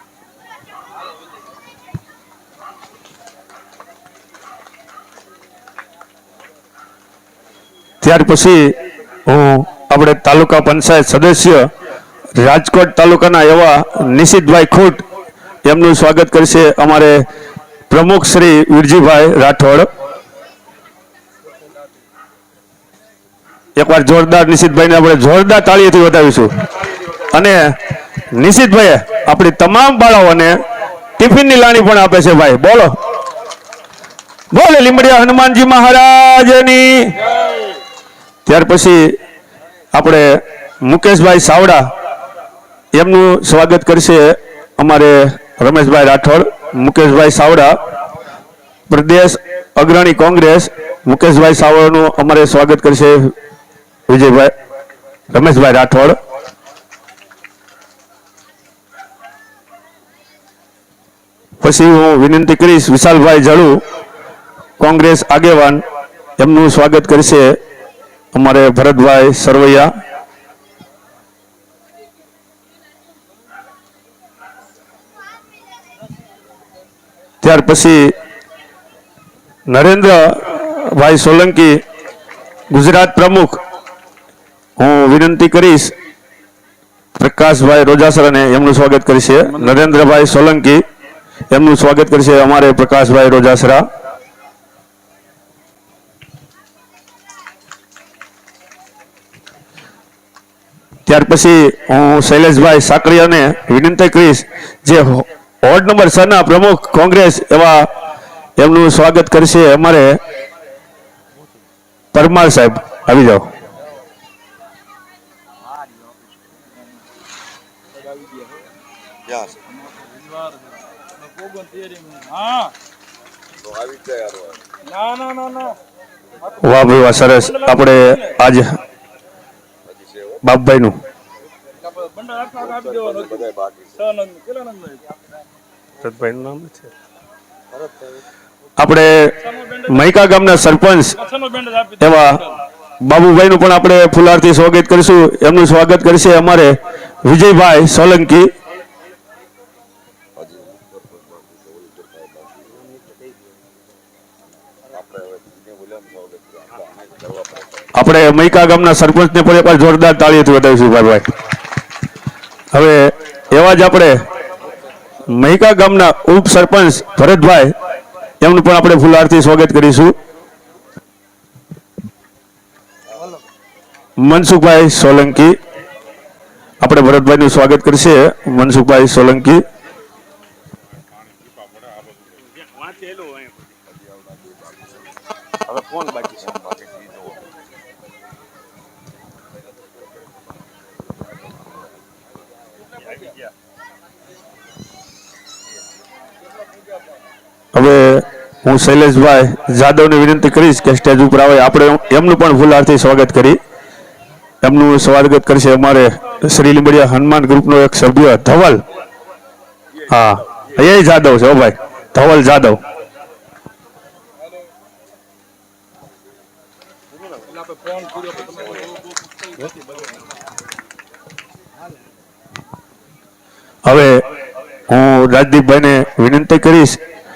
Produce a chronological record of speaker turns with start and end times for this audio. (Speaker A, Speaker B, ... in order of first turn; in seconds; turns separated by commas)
Speaker A: 8.0-11.7, Speaker A: 12.3-15.0, Speaker A: 15.6-17.2, Speaker A: 17.9-19.9, Speaker A: 23.8-26.5, Speaker A: 27.3-27.8, Speaker A: 28.3-30.6, Speaker A: 31.2-33.0, Speaker A: 34.5-37.3, Speaker A: 38.5-39.2, Speaker A: 39.9-41.9, Speaker A: 42.9-47.8, Speaker A: 48.9-53.3, Speaker A: 54.1-54.5, Speaker A: 55.3-56.2, Speaker A: 61.6-63.8, Speaker A: 64.8-65.8, Speaker A: 66.4-67.6, Speaker A: 68.3-69.9, Speaker A: 77.4-78.1, Speaker A: 79.7-81.8, Speaker A: 82.7-83.6, Speaker A: 84.8-85.9, Speaker A: 87.2-90.8, Speaker A: 91.5-93.9, Speaker A: 101.0-107.9, Speaker A: 108.6-110.2, Speaker A: 112.1-113.5, Speaker B: 121.4-122.4, Speaker C: 123.6-124.6, Speaker B: 125.0-125.7, Speaker A: 126.6-128.8, Speaker C: 129.9-130.3, Speaker A: 130.4-131.0, Speaker C: 132.4-134.2, Speaker B: 134.2-135.0, Speaker A: 136.0-136.9, Speaker A: 138.8-148.5, Speaker C: 150.4-152.7, Speaker C: 154.9-157.7, Speaker A: 157.9-161.3, Speaker A: 162.7-164.2, Speaker A: 165.3-167.7, Speaker A: 168.4-170.2, Speaker A: 174.2-175.6, Speaker A: 176.8-179.6, Speaker A: 182.8-183.4, Speaker C: 183.9-184.8, Speaker C: 185.7-187.3, Speaker A: 197.7-203.6, Speaker A: 204.6-208.8, Speaker A: 210.1-212.8, Speaker C: 217.9-218.7, Speaker A: 223.8-224.2, Speaker A: 224.9-227.0